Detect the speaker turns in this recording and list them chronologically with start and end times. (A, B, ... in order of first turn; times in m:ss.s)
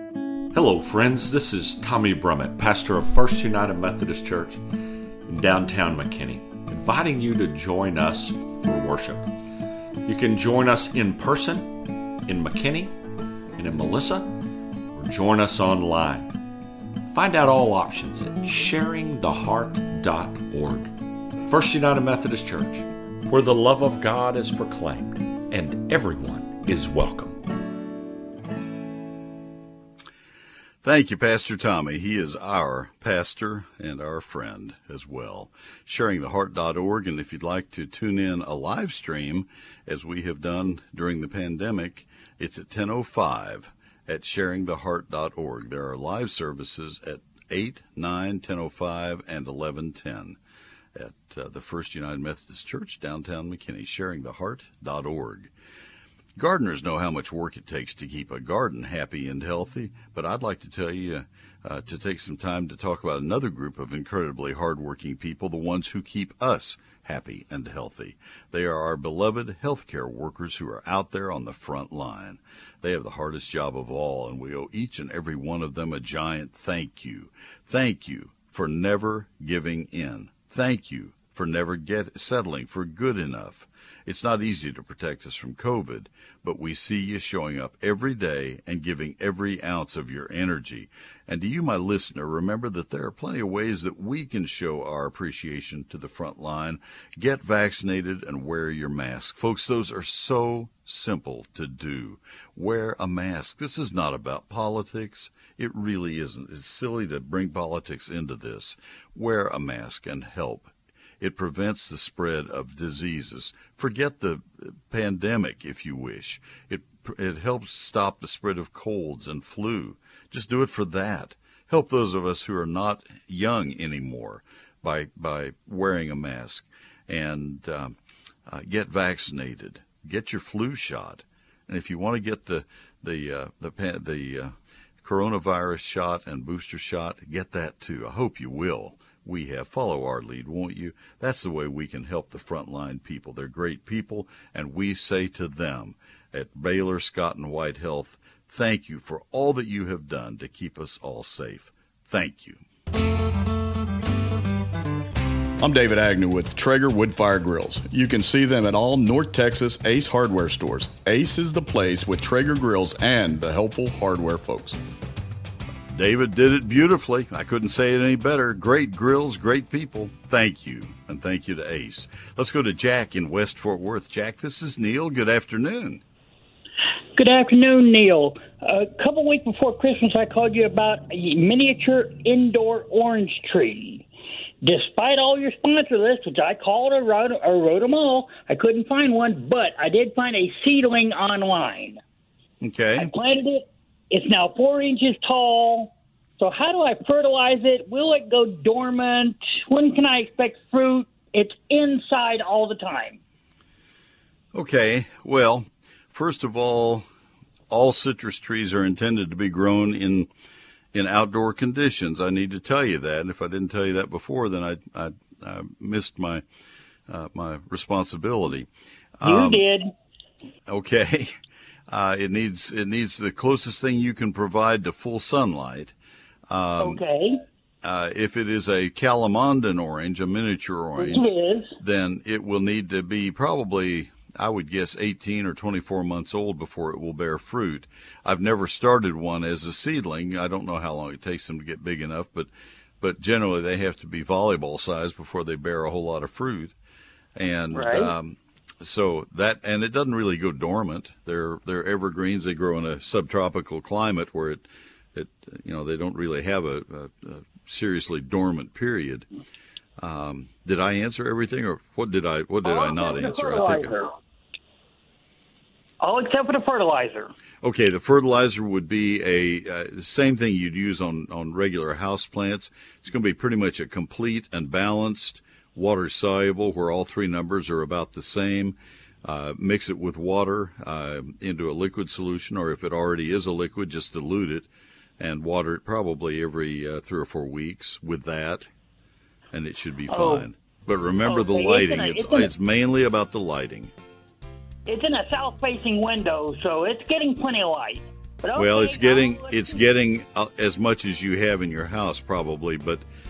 0:00.5-0:04.6 A
0:05.2-0:09.4 A
0:10.0-0:13.0 A
0:13.6-0:14.4 A
0:15.0-0:16.4 A
0:17.1-0:20.9 A
0:21.4-0:27.4 A
0:30.8-0:50.4 B
0:51.0-0:55.5 B
0:56.4-2:08.0 B
2:08.5-2:32.6 B
2:35.6-2:44.8 C
2:45.9-2:56.0 B
2:57.2-3:04.1 D
3:04.6-3:12.0 D
3:12.6-3:13.1 B
3:13.0-3:23.2 D
3:24.5-3:27.1 B
3:27.7-3:30.3 B
3:30.9-3:36.4 B
3:37.1-3:38.7 B
3:39.2-3:39.7 B
3:39.2-3:39.9 D
3:40.7-3:41.3 B
3:41.9-3:45.9 B
3:46.5-3:47.0 B
3:46.8-3:47.4 D
3:47.8-4:02.5 B
3:51.0-3:51.8 D
4:03.0-4:06.8 B
4:07.4-4:19.3 B
4:07.8-4:08.1 D
4:20.0-4:23.9 B
4:22.7-4:24.1 D
4:26.0-4:27.3 D
4:27.6-4:44.7 B
4:45.2-4:48.7 B
4:49.5-4:53.9 B
4:50.1-4:50.5 D
4:51.2-4:52.5 D
4:54.9-4:59.8 D
4:58.5-5:03.0 B